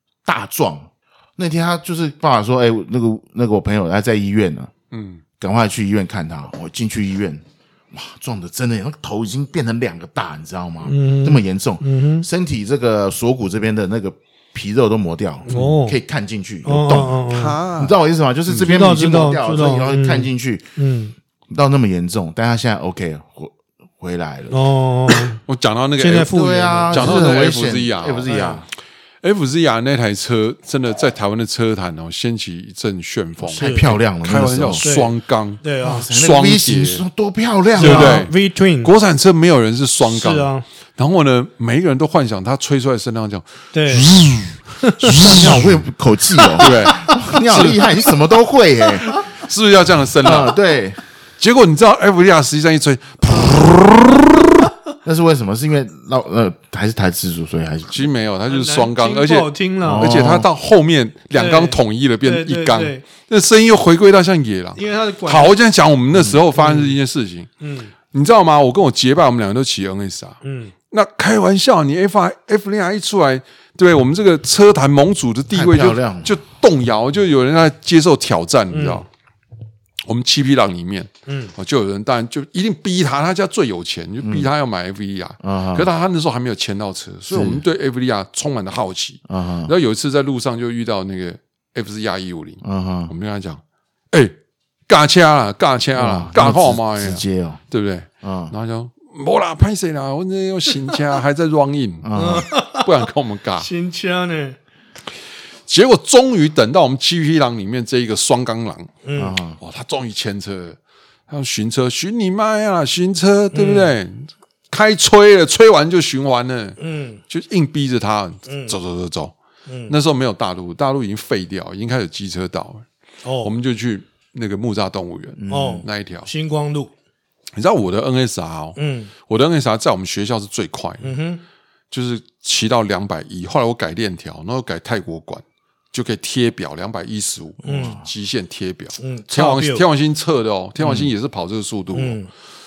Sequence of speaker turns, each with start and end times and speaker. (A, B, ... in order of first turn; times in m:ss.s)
0:00.2-0:04.7 A
0:04.9-0:05.2 B
0:05.4-0:17.2 A
0:10.8-0:12.3 C
0:15.4-0:16.0 C
0:15.5-0:15.8 B
0:16.7-0:17.6 C
0:17.3-0:18.8 B
0:17.8-0:20.7 A
0:18.7-0:21.2 C
0:21.5-0:24.6 A
0:24.5-0:25.4 C
0:25.5-0:26.3 B
0:26.0-0:27.4 C
0:26.3-0:28.7 A
0:26.9-0:28.4 B
0:28.3-0:28.6 C
0:29.2-0:37.0 B
0:33.4-0:33.9 C
0:33.5-0:34.8 A
0:34.8-0:36.1 C
0:35.8-0:38.2 A
0:37.8-0:38.9 C
0:37.8-0:45.7 B
0:40.0-0:40.6 C
0:43.7-0:44.1 C
0:44.7-0:45.4 C
0:45.2-0:49.2 A
0:46.6-0:47.9 B
0:49.2-0:50.6 B
0:50.2-0:51.0 A
0:51.4-0:54.3 B
0:55.0-0:58.1 A
0:57.9-1:07.5 B
0:58.5-1:00.2 C
0:59.8-1:00.5 A
1:01.3-1:03.1 C
1:04.8-1:05.6 C
1:06.6-1:07.0 C
1:07.6-1:07.9 C
1:08.1-1:10.4 B
1:10.4-1:10.7 C
1:10.9-1:19.1 B
1:15.5-1:16.4 A
1:18.7-1:19.0 C
1:20.1-1:33.6 B
1:21.3-1:21.5 C
1:24.2-1:24.5 A
1:25.4-1:25.9 A
1:27.3-1:27.6 A
1:29.3-1:29.7 A
1:32.6-1:33.1 A
1:34.9-1:42.1 B
1:36.0-1:37.6 A
1:38.2-1:38.5 A
1:42.0-1:42.5 A
1:42.2-1:42.9 C
1:42.7-1:43.7 B
1:43.6-1:44.6 C
1:45.7-1:49.0 B
1:49.0-1:49.4 C
1:49.2-1:49.6 A
1:49.6-1:50.8 B
1:51.3-1:56.8 B
1:53.5-1:54.0 C
1:56.8-1:57.2 C
1:57.3-1:59.3 B
1:58.5-1:58.8 C
1:59.7-2:00.0 C
1:59.9-2:02.9 B
2:03.2-2:03.5 C
2:03.4-2:06.3 B
2:05.4-2:05.9 A
2:05.5-2:06.9 C
2:07.6-2:11.2 B
2:08.8-2:09.1 C
2:11.0-2:11.4 C
2:11.9-2:22.2 B
2:17.6-2:18.0 C
2:17.7-2:18.0 A
2:19.0-2:19.8 C
2:20.8-2:21.1 A
2:22.0-2:22.3 C